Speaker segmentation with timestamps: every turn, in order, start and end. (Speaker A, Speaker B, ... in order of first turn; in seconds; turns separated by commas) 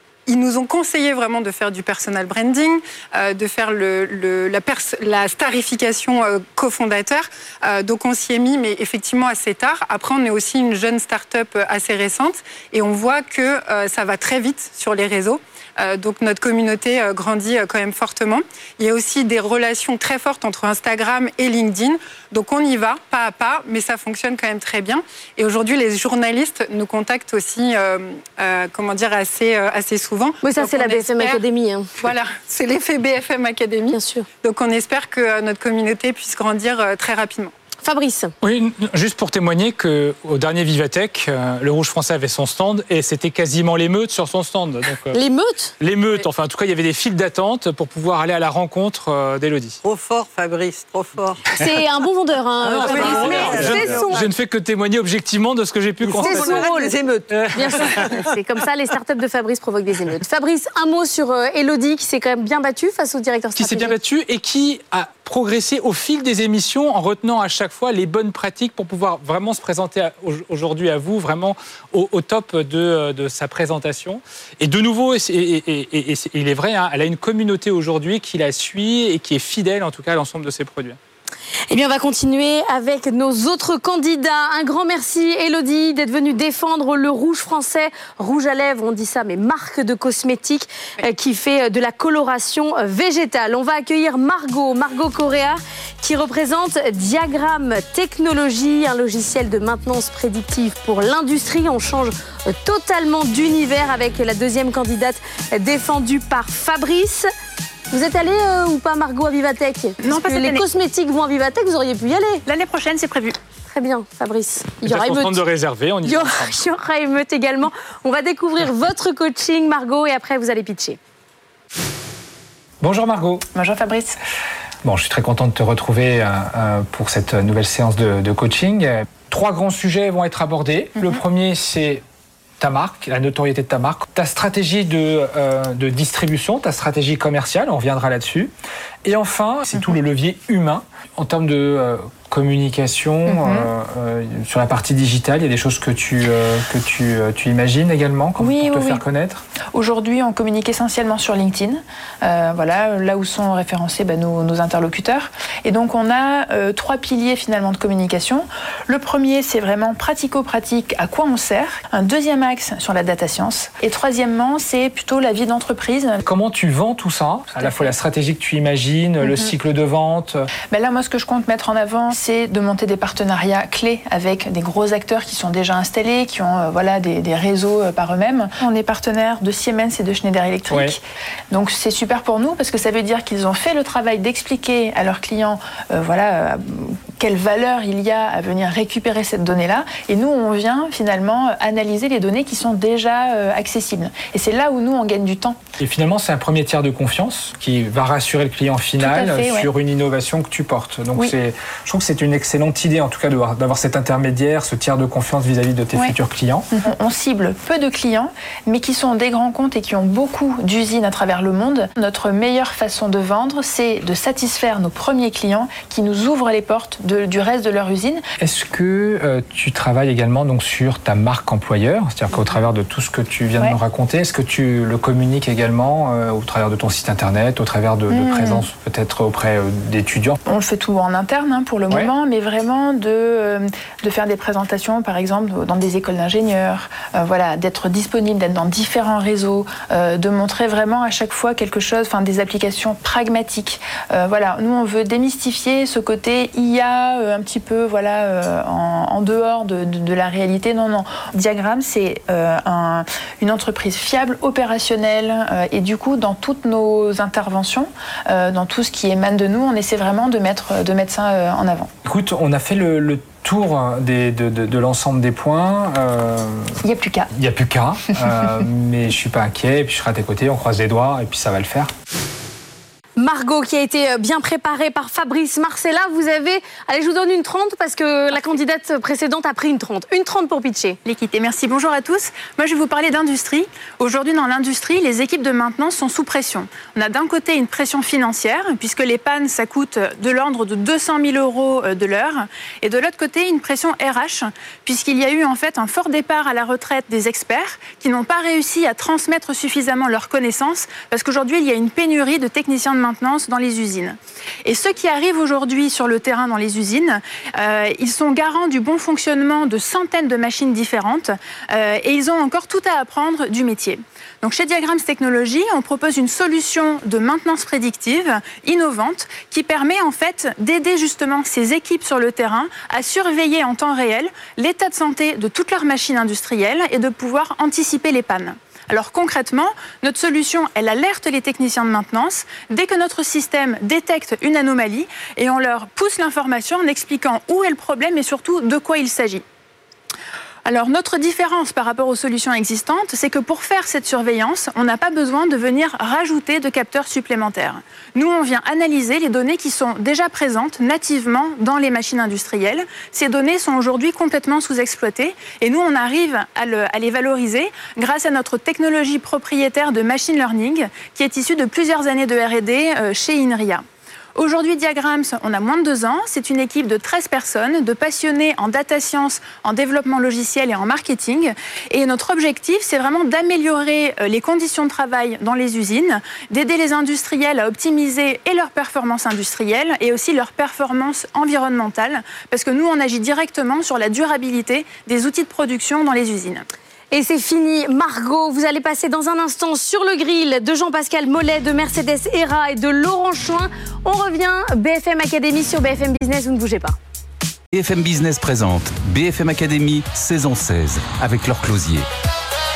Speaker A: 0.3-31.4, Speaker B: 30.4-31.9, Speaker A: 32.0-37.5, Speaker B: 33.9-34.3, Speaker B: 37.8-38.3, Speaker C: 38.4-45.2, Speaker B: 45.1-45.7, Speaker C: 45.8-49.8, Speaker D: 49.8-51.5, Speaker B: 51.6-54.3, Speaker D: 52.6-54.3, Speaker C: 52.6-56.7, Speaker D: 56.0-58.3, Speaker B: 56.2-57.0, Speaker B: 57.5-63.9, Speaker C: 63.6-81.0, Speaker B: 81.7-107.3, Speaker B: 107.9-112.4, Speaker E: 110.0-110.7, Speaker E: 112.5-113.4, Speaker B: 113.7-115.4, Speaker C: 114.8-116.7, Speaker B: 116.0-121.0, Speaker C: 122.8-123.5, Speaker F: 123.5-124.2, Speaker C: 124.8-132.0, Speaker C: 132.6-138.5, Speaker C: 139.0-149.4, Speaker F: 143.3-143.7, Speaker F: 148.4-149.0, Speaker F: 149.8-166.2, Speaker C: 166.2-170.5, Speaker F: 167.5-167.9, Speaker F: 169.2-169.5, Speaker F: 170.7-181.0, Speaker C: 180.7-181.0, Speaker F: 181.5-195.6, Speaker C: 195.8-206.7, Speaker F: 199.0-199.7, Speaker F: 206.7-218.2, Speaker C: 218.4-230.4, Speaker F: 228.1-228.7, Speaker F: 230.5-261.9, Speaker C: 262.0-266.8, Speaker F: 266.8-267.3, Speaker C: 267.3-271.9, Speaker B: 273.2-281.0, Speaker E: 281.1-339.4, Speaker E: 340.6-363.9, Speaker E: 364.4-386.6, Speaker B: 387.1-397.0, Speaker G: 397.7-402.1